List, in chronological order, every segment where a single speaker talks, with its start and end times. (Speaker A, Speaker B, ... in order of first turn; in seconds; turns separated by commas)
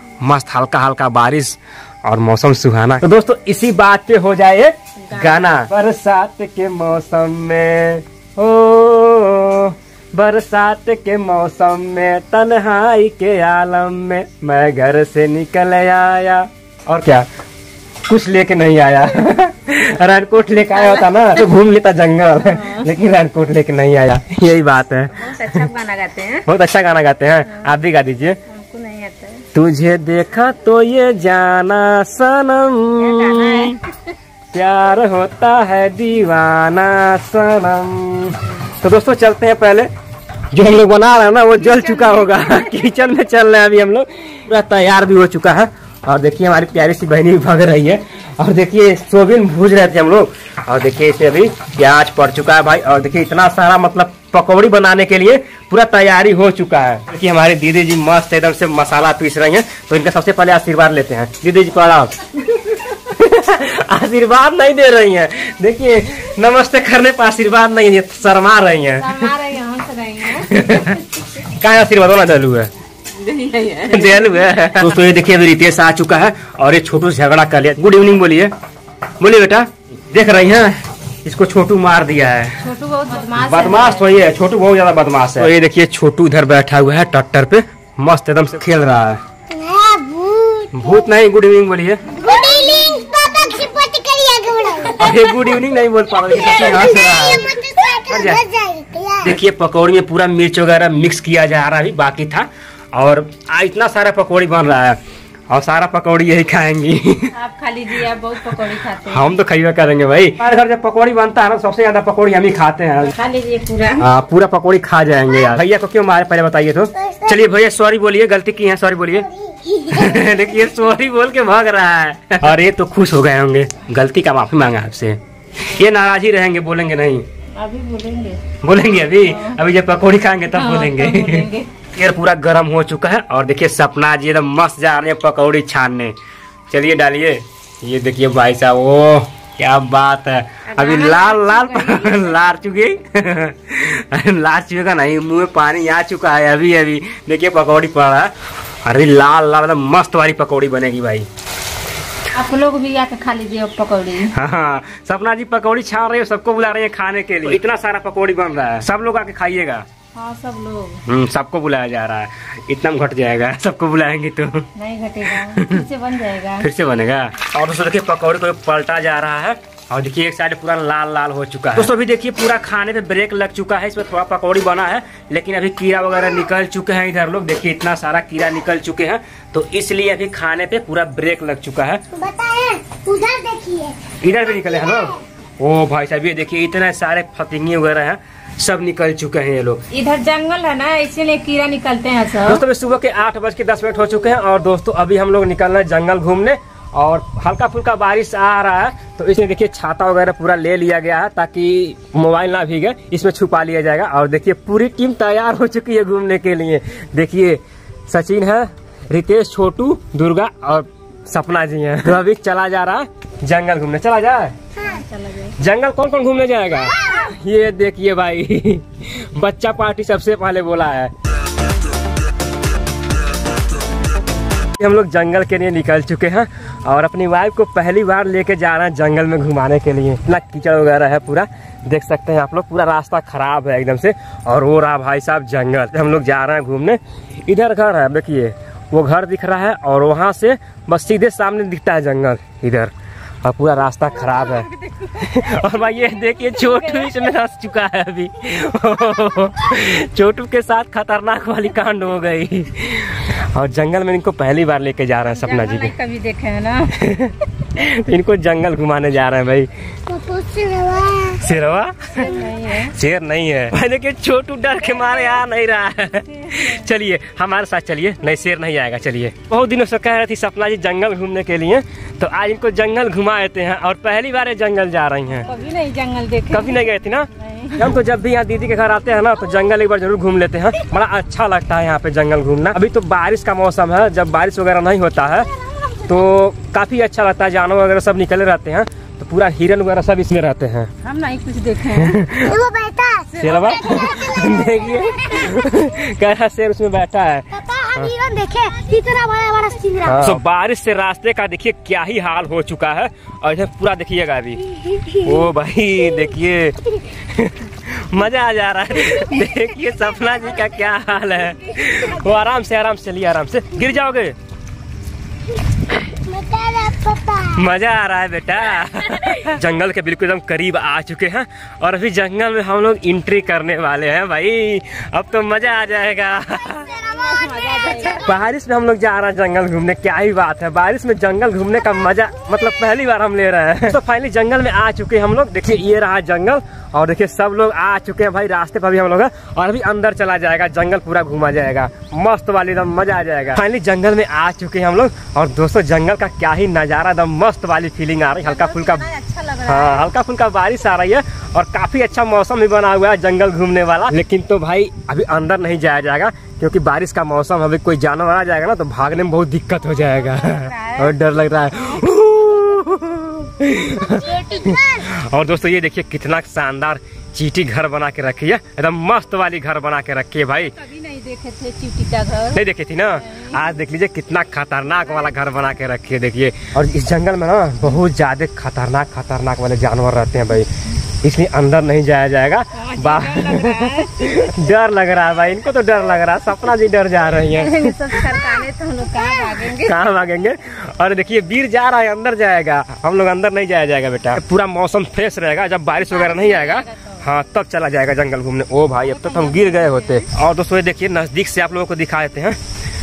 Speaker A: 0.2-17.3, Speaker B: 5.0-5.5, Speaker A: 18.1-25.7, Speaker B: 20.7-21.4, Speaker B: 22.4-22.9, Speaker B: 25.1-26.5, Speaker A: 26.4-28.4, Speaker B: 28.5-29.4, Speaker A: 29.5-33.8, Speaker B: 33.0-33.9, Speaker A: 34.5-39.9, Speaker A: 40.5-62.1, Speaker B: 41.6-42.7, Speaker A: 62.9-69.3, Speaker B: 69.0-71.0, Speaker A: 70.3-72.7, Speaker B: 73.2-74.6, Speaker A: 73.9-78.5, Speaker A: 79.2-82.6, Speaker B: 82.6-84.0, Speaker A: 83.3-89.2, Speaker C: 89.5-91.0, Speaker A: 90.7-92.0, Speaker C: 92.2-95.6, Speaker A: 95.0-98.4, Speaker C: 96.2-99.3, Speaker A: 99.2-105.0, Speaker A: 105.5-107.3, Speaker B: 107.3-109.3, Speaker A: 109.0-113.1, Speaker B: 113.1-114.1, Speaker A: 114.0-119.3, Speaker C: 117.0-117.4, Speaker C: 119.3-120.5, Speaker A: 119.8-127.2, Speaker B: 127.5-128.4, Speaker A: 128.6-136.1, Speaker B: 129.1-129.6, Speaker B: 130.5-131.7, Speaker A: 136.7-148.3, Speaker B: 140.7-142.3, Speaker A: 148.8-151.3, Speaker B: 152.3-154.3, Speaker A: 154.3-159.8, Speaker B: 160.1-161.0, Speaker A: 161.1-164.7, Speaker B: 164.7-166.7, Speaker A: 165.3-165.8, Speaker A: 166.6-182.0, Speaker C: 182.1-184.1, Speaker A: 184.2-189.8, Speaker B: 189.9-192.6, Speaker A: 192.4-214.6, Speaker B: 214.8-215.5, Speaker A: 215.6-221.1, Speaker A: 224.8-242.9, Speaker A: 243.4-255.9, Speaker B: 244.1-247.3, Speaker B: 255.3-256.9, Speaker A: 256.9-259.7, Speaker C: 260.1-261.4, Speaker A: 261.4-275.5, Speaker B: 262.2-262.9, Speaker B: 266.3-266.9, Speaker B: 275.4-278.0, Speaker A: 276.5-285.5, Speaker A: 286.1-290.9, Speaker B: 291.0-292.2, Speaker A: 291.9-292.6, Speaker C: 292.4-295.8, Speaker B: 293.4-294.4, Speaker A: 293.4-298.1, Speaker C: 297.5-300.3, Speaker A: 300.1-314.4, Speaker B: 311.9-312.3, Speaker C: 316.2-317.6, Speaker A: 317.5-326.9, Speaker C: 326.7-328.1, Speaker B: 326.9-328.3, Speaker A: 327.9-349.1, Speaker B: 348.3-350.1, Speaker A: 349.6-370.8, Speaker B: 359.9-361.1, Speaker B: 364.2-364.7, Speaker C: 364.2-365.1, Speaker B: 370.7-372.6, Speaker A: 372.5-380.7, Speaker B: 373.2-373.6, Speaker B: 375.1-375.5, Speaker A: 381.2-388.3, Speaker B: 382.8-384.5, Speaker B: 387.4-390.0, Speaker A: 389.6-402.6, Speaker B: 396.1-397.2, Speaker B: 399.0-400.2